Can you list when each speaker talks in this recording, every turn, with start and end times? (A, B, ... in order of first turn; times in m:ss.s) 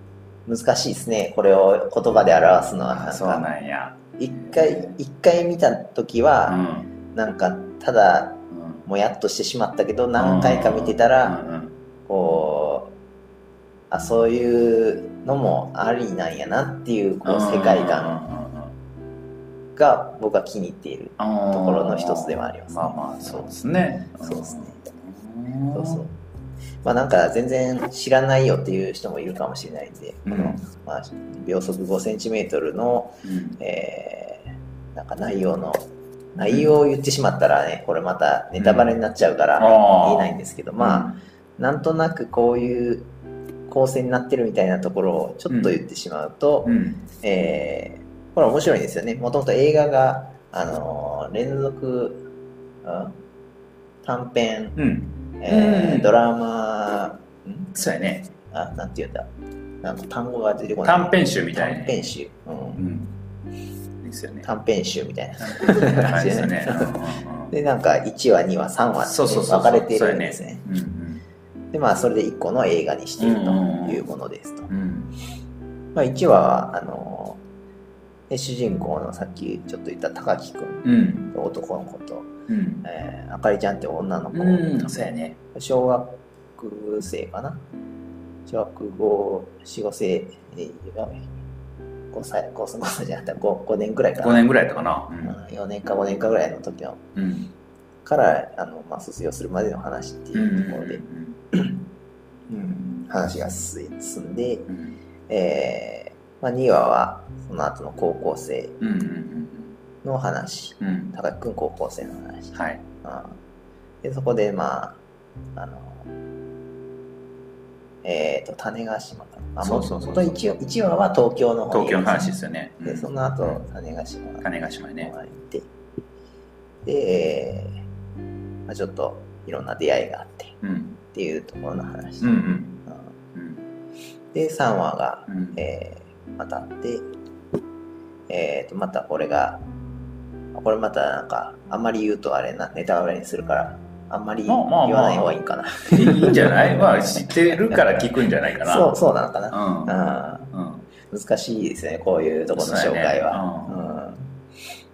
0:00.5-0:03.5 A
0:02.9-0:05.0 B
0:04.2-0:11.4 A
0:06.5-0:06.9 B
0:08.5-0:08.8 B
0:10.2-0:11.8 B
0:12.1-0:13.0 A
0:13.9-0:18.3 A
0:17.2-0:18.8 B
0:19.8-0:23.5 A
0:21.2-0:26.0 B
0:24.2-0:24.8 A
0:25.7-0:26.1 A
0:26.8-0:35.8 A
0:30.3-0:30.6 B
0:33.2-0:33.6 B
0:36.4-0:43.1 A
0:38.6-0:38.9 B
0:39.6-0:41.2 B
0:43.7-0:52.2 A
0:45.5-0:45.8 B
0:46.6-0:47.0 B
0:52.8-0:53.2 A
0:54.0-0:54.8 A
0:54.8-0:56.1 B
0:55.4-0:57.8 A
0:57.8-0:58.3 B
0:58.5-0:59.3 A
0:59.8-1:02.8 A
1:00.8-1:02.1 B
1:02.8-1:03.1 B
1:04.0-1:04.5 B
1:04.4-1:10.6 A
1:05.4-1:07.5 B
1:09.0-1:11.2 B
1:11.7-1:14.7 A
1:13.2-1:14.0 B
1:14.7-1:15.1 B
1:16.0-1:17.4 A
1:18.3-1:22.3 A
1:20.8-1:21.3 B
1:22.5-1:22.8 B
1:22.8-1:27.6 A
1:24.3-1:25.4 B
1:28.5-1:31.3 A
1:32.1-1:34.5 A
1:34.2-1:35.4 B
1:35.2-1:37.1 A
1:37.2-1:37.5 B
1:38.0-1:41.8 A
1:40.4-1:41.4 B
1:42.5-1:44.7 A
1:44.7-1:45.0 B
1:45.3-1:48.8 A
1:48.8-1:49.8 B
1:50.0-1:53.4 A
1:50.8-1:51.2 B
1:52.5-1:52.8 B
1:54.0-1:55.0 A
1:55.6-1:56.1 A
1:58.0-2:04.5 A
1:59.6-2:00.4 B
2:01.7-2:03.6 B
2:04.4-2:05.1 B
2:05.0-2:05.7 A
2:06.8-2:07.8 A
2:08.7-2:10.6 A
2:10.6-2:11.0 B
2:11.1-2:13.1 A
2:12.2-2:12.8 B
2:13.4-2:13.6 B
2:14.3-2:17.0 A
2:15.3-2:15.6 B
2:18.3-2:19.6 A
2:20.5-2:30.5 A
2:24.5-2:25.4 B
2:25.9-2:29.0 B
2:29.5-2:29.9 B
2:30.5-2:30.8 B
2:31.1-2:34.3 A
2:32.6-2:33.8 B